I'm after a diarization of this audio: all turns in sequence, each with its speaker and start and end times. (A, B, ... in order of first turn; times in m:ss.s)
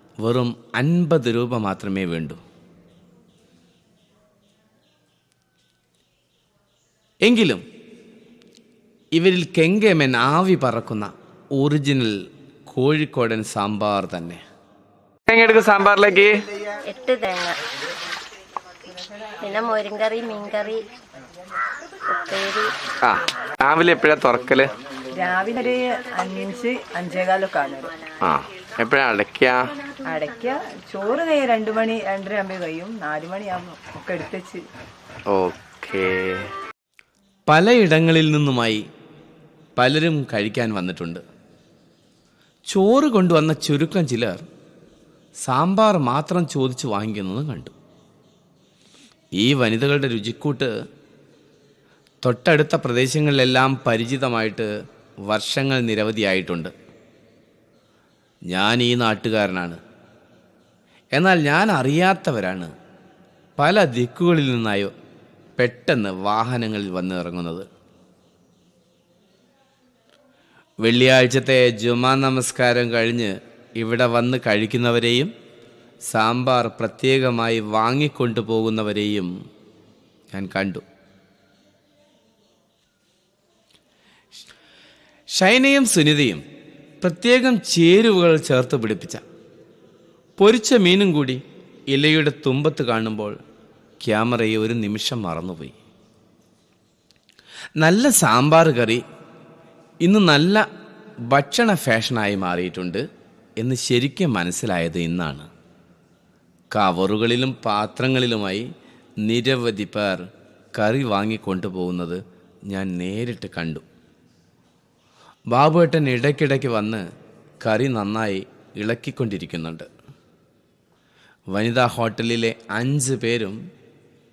0:00.2-0:02.4 A
0:07.2-0:07.6 A
0:09.1-0:12.1 A
0:12.7-0:14.4 A
0:15.3-0:16.4 B
0:16.9-0:17.6 C
0:19.4-0:20.8 C
0:22.1-0:22.7 C
0:23.1-0:24.7 B
0:25.1-0:28.0 D
0:28.3-0:29.6 B
0:30.0-0:34.6 D
0:35.3-0:36.4 B
0:37.5-0:38.8 A
0:39.8-0:41.2 A
0:42.7-0:44.4 A
0:45.4-0:47.7 A
0:49.4-0:50.7 A
0:52.2-0:54.7 A
0:55.3-0:56.7 A
0:58.5-0:59.8 A
1:01.2-1:02.7 A
1:03.6-1:04.9 A
1:05.6-1:07.6 A
1:10.8-1:15.3 A
1:16.1-1:19.3 A
1:20.3-1:20.8 A
1:25.4-1:26.4 A
1:27.0-1:29.2 A
1:30.4-1:31.4 A
1:31.9-1:33.4 A
1:34.0-1:35.8 A
1:37.8-1:39.0 A
1:40.0-1:40.6 A
1:41.3-1:43.0 A
1:43.6-1:45.5 A
1:46.7-1:48.6 A
1:49.2-1:50.2 A
1:50.8-1:53.8 A
1:55.5-1:57.0 A
1:57.6-1:59.9 A
2:01.5-2:03.6 A